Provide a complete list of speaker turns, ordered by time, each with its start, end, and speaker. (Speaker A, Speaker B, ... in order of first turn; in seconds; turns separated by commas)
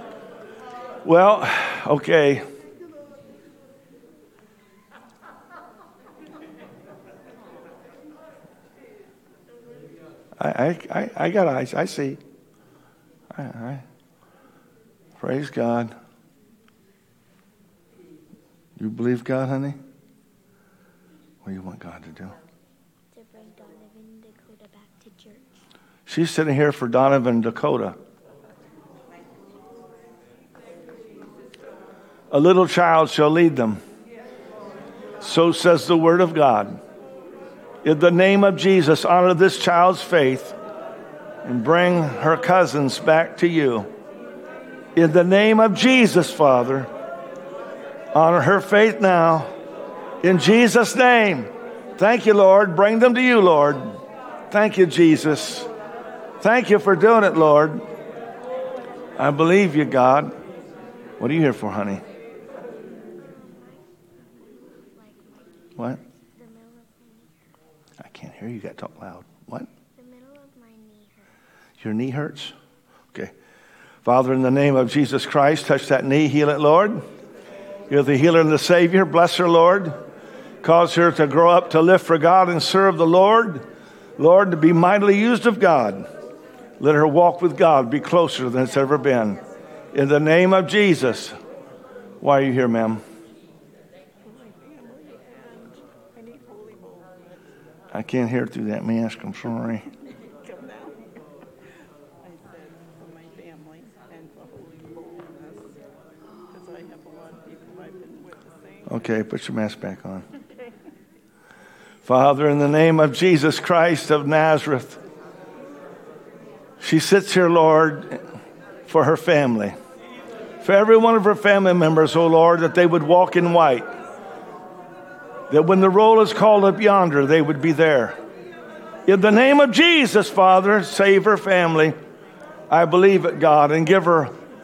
Speaker A: 1.0-2.4, Speaker A: 10.4-12.2, Speaker A: 13.3-13.8, Speaker A: 15.2-15.9, Speaker A: 18.8-19.8, Speaker A: 21.4-22.4, Speaker B: 23.1-25.6, Speaker A: 26.1-27.9, Speaker A: 32.3-33.8, Speaker A: 35.2-36.8, Speaker A: 37.8-40.5, Speaker A: 41.4-43.9, Speaker A: 44.9-46.9, Speaker A: 48.1-49.5, Speaker A: 50.2-54.0, Speaker A: 54.5-55.7, Speaker A: 56.4-57.9, Speaker A: 59.2-60.3, Speaker A: 61.2-62.0, Speaker B: 63.2-63.9, Speaker B: 64.4-67.3, Speaker A: 68.0-69.7, Speaker B: 70.0-71.2, Speaker A: 71.8-72.5, Speaker A: 74.0-77.0, Speaker A: 77.9-80.0, Speaker A: 80.6-83.7, Speaker A: 84.2-86.1, Speaker A: 86.8-89.4, Speaker A: 89.9-91.3, Speaker A: 92.2-93.0, Speaker C: 94.2-97.1, Speaker A: 97.9-99.9, Speaker C: 100.4-101.1, Speaker C: 102.2-105.7, Speaker C: 106.4-108.9, Speaker A: 108.9-110.2, Speaker A: 112.1-115.0, Speaker A: 116.8-118.2, Speaker A: 118.9-119.7, Speaker A: 120.6-123.9, Speaker A: 125.5-128.2, Speaker A: 129.1-131.9, Speaker A: 132.7-134.3